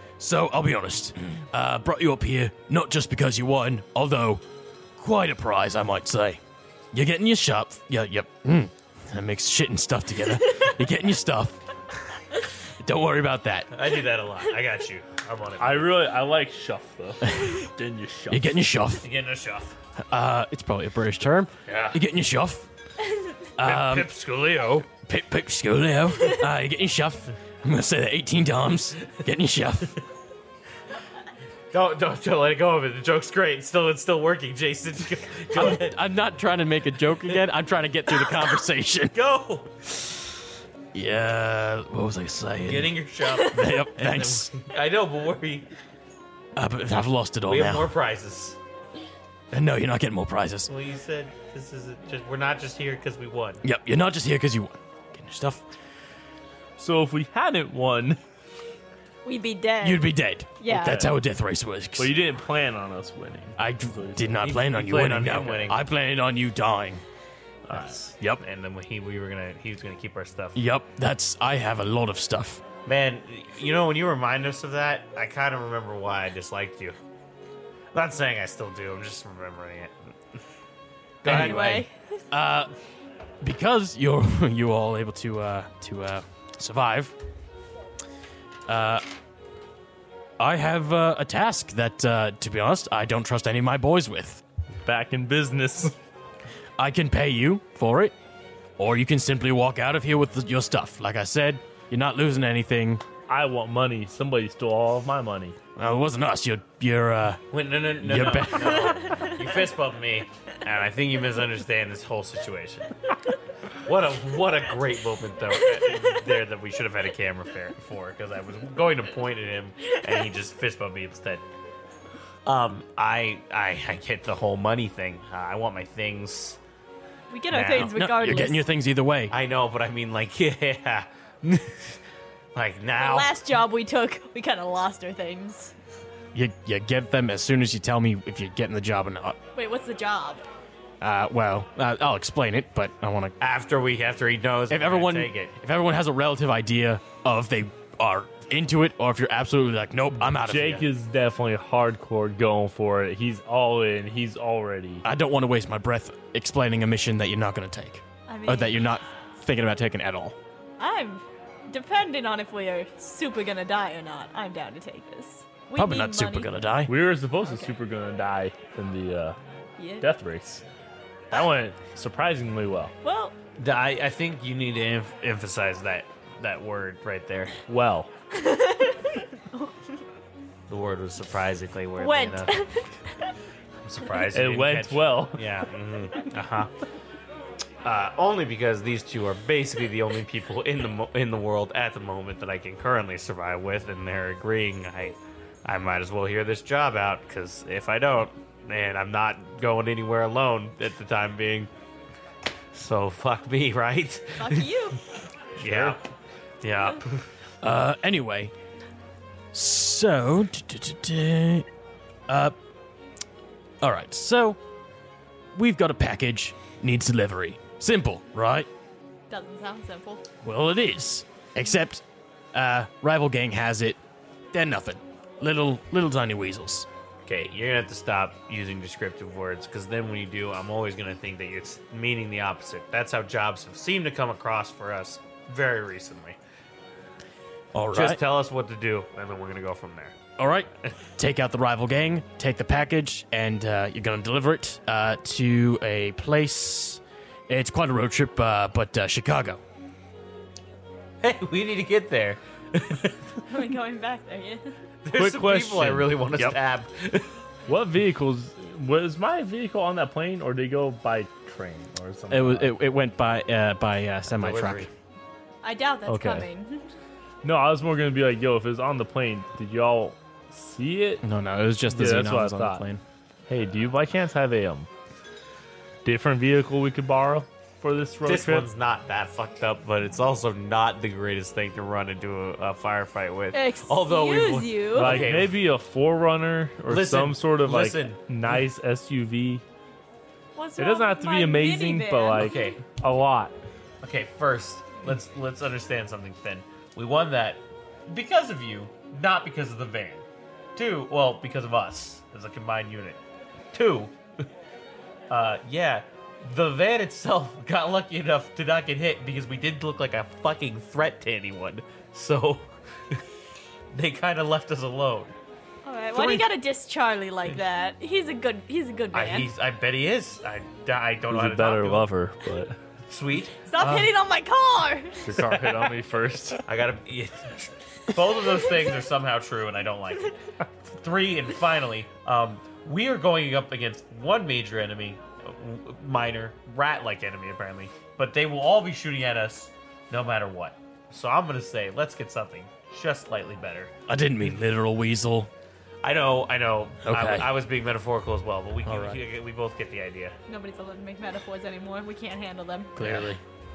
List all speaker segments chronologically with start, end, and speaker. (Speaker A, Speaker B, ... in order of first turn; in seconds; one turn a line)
Speaker A: 0.2-4.4
Speaker A: 5.0-6.4
Speaker A: 6.9-11.6
Speaker A: 12.8-13.7
Speaker B: 13.7-16.0
Speaker C: 15.6-18.6
Speaker A: 18.3-19.1
Speaker B: 19.0-19.8
Speaker A: 20.1-22.7
Speaker B: 21.7-22.0
Speaker D: 23.1-23.3
Speaker A: 23.6-24.1
Speaker B: 23.6-24.9
Speaker A: 24.9-29.9
Speaker B: 31.7-36.0
Speaker A: 35.5-39.1
Speaker B: 37.1-37.4
Speaker B: 38.1-38.5
Speaker B: 39.1-39.7
Speaker A: 40.9-44.5
Speaker B: 42.6-45.7
Speaker A: 46.6-47.9
Speaker B: 47.5-48.6
Speaker A: 49.5-50.7
Speaker B: 50.7-53.6
Speaker A: 53.6-55.6
Speaker C: 56.8-58.2
Speaker D: 59.2-61.1
Speaker A: 59.8-62.1
Speaker C: 60.7-61.1
Speaker C: 62.0-64.4
Speaker A: 63.6-67.0
Speaker B: 64.4-65.9
Speaker C: 67.7-68.1
Speaker B: 67.7-70.6
Speaker A: 70.5-72.6
Speaker B: 72.9-77.0
Speaker B: 77.9-79.9
Speaker B: 81.2-81.8
Speaker A: 81.2-82.7
Speaker D: 81.2-82.2
Speaker A: 83.4-87.2
Speaker A: 88.7-89.0
Speaker A: 90.4-94.4
Speaker C: 94.8-95.9
Speaker A: 96.8-98.1
Speaker A: 98.8-103.0
Speaker C: 103.3-105.6
Speaker A: 105.8-107.4
Speaker B: 107.5-112.9
Speaker A: 108.0-109.2
Speaker B: 113.8-121.4
Speaker B: 122.5-126.6
Speaker D: 127.3-128.7
Speaker A: 127.5-129.3
Speaker B: 129.3-132.0
Speaker B: 132.6-133.4
Speaker D: 133.0-135.7
Speaker A: 136.3-139.4
Speaker D: 139.6-140.5
Speaker A: 141.0-143.3
Speaker B: 143.4-145.5
Speaker A: 144.7-150.9
Speaker C: 150.3-155.1
Speaker A: 155.1-160.4
Speaker D: 158.3-158.9
Speaker D: 160.8-166.5
Speaker A: 165.8-167.0
Speaker C: 166.9-169.4
Speaker D: 169.8-170.1
Speaker C: 170.0-170.6
Speaker C: 171.3-172.9
Speaker D: 173.0-173.3
Speaker B: 173.6-177.5
Speaker C: 177.7-178.1
Speaker D: 178.3-179.8
Speaker B: 180.7-182.5
Speaker D: 182.0-183.3
Speaker B: 183.8-186.7
Speaker C: 184.3-185.5
Speaker B: 187.8-201.7
Speaker B: 202.7-204.8
Speaker D: 204.4-205.0
Speaker B: 205.6-206.0
Speaker C: 205.6-206.0
Speaker B: 206.6-207.2
Speaker A: 207.6-208.5
Speaker A: 209.5-211.7
Speaker A: 212.3-212.6
Speaker A: 213.8-214.6
Speaker A: 215.5-218.7
Speaker D: 219.3-220.2
Speaker A: 220.4-222.0
Speaker A: 222.5-224.0
Speaker A: 224.5-226.9
Speaker B: 227.3-236.4
Speaker A: 237.7-238.2
Speaker B: 237.9-240.2
Speaker A: 240.4-249.6
Speaker B: 251.2-253.2
Speaker D: 253.5-254.7
Speaker B: 255.0-257.3
Speaker A: 255.2-256.6
Speaker C: 257.7-262.7
Speaker A: 262.3-264.9
Speaker B: 264.3-264.9
Speaker D: 265.6-266.9
Speaker C: 266.1-266.5
Speaker C: 267.4-271.2
Speaker A: 271.2-273.0
Speaker C: 271.9-272.9
Speaker C: 273.5-274.9
Speaker C: 276.1-278.7
Speaker B: 278.2-285.6
Speaker D: 283.5-285.3
Speaker C: 284.9-289.6
Speaker B: 286.9-288.3
Speaker D: 290.6-292.5
Speaker C: 290.8-293.6
Speaker B: 292.4-292.8
Speaker B: 294.0-300.2
Speaker B: 300.8-303.2
Speaker B: 303.7-304.1
Speaker B: 305.3-313.2
Speaker B: 313.9-315.3
Speaker D: 315.9-319.5
Speaker B: 316.1-316.5
Speaker B: 319.1-322.1
Speaker C: 321.3-322.8
Speaker B: 323.1-323.6
Speaker D: 323.7-325.4
Speaker A: 323.8-324.1
Speaker C: 325.2-326.6
Speaker B: 326.7-330.4
Speaker B: 331.0-343.9
Speaker A: 344.1-345.5
Speaker B: 346.0-350.4
Speaker A: 347.1-347.5
Speaker A: 348.9-349.2
Speaker D: 350.5-352.9
Speaker A: 353.0-353.4
Speaker B: 353.0-353.3